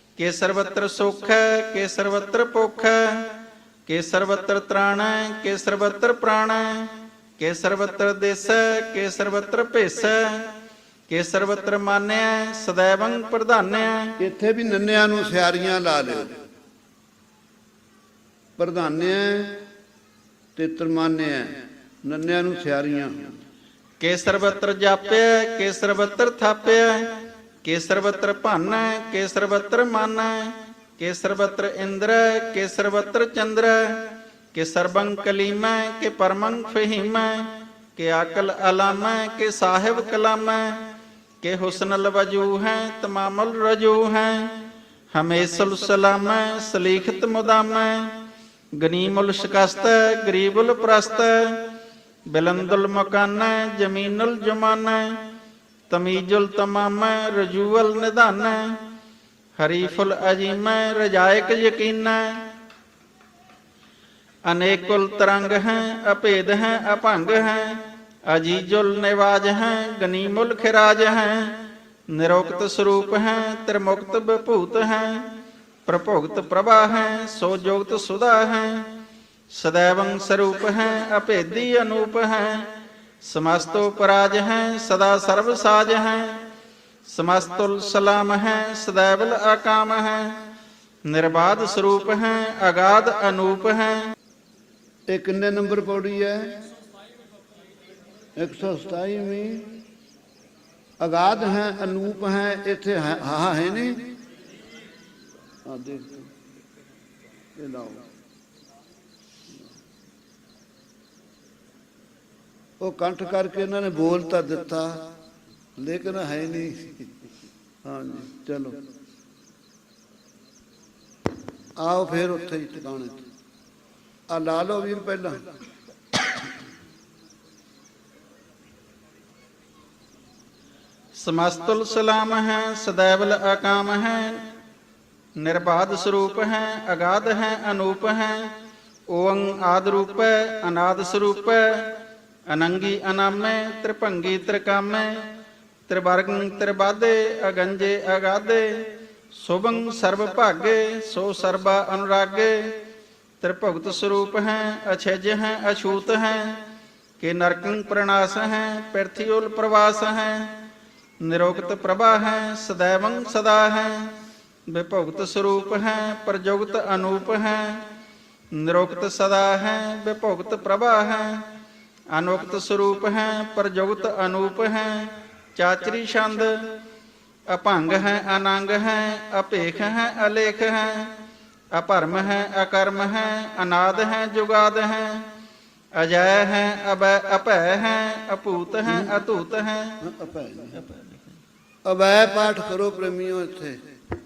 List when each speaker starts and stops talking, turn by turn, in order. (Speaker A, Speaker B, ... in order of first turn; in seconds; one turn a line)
Speaker A: 0.1-10.5
Speaker A: 11.1-14.2
Speaker B: 14.2-16.4
Speaker B: 18.6-19.6
Speaker B: 20.6-23.3
Speaker A: 24.0-40.9
Speaker A: 41.4-44.6
Speaker A: 45.1-48.1
Speaker A: 48.7-51.7
Speaker A: 52.2-55.2
Speaker A: 55.9-58.8
Speaker A: 59.5-62.5
Speaker A: 64.4-78.9
Speaker A: 79.5-82.7
Speaker A: 83.2-86.4
Speaker A: 87.0-90.4
Speaker A: 91.0-94.1
Speaker B: 95.1-96.7
Speaker B: 98.3-99.8
Speaker B: 101.0-104.1
Speaker B: 105.6-106.3
Speaker B: 107.5-108.0
Speaker B: 112.8-115.1
Speaker B: 115.8-117.1
Speaker B: 117.8-118.8
Speaker B: 121.8-123.2
Speaker B: 124.3-125.4
Speaker A: 131.1-134.4
Speaker A: 135.3-138.5
Speaker A: 139.1-145.3
Speaker A: 145.9-152.8
Speaker A: 153.4-156.6
Speaker A: 157.2-160.6
Speaker A: 161.2-164.1
Speaker A: 164.7-167.9
Speaker A: 168.5-171.5
Speaker A: 172.1-176.7
Speaker A: 177.5-181.2
Speaker A: 181.7-185.3
Speaker A: 185.9-190.0
Speaker B: 188.9-189.2
Speaker B: 190.0-190.8
Speaker A: 190.7-191.4
Speaker B: 191.8-193.8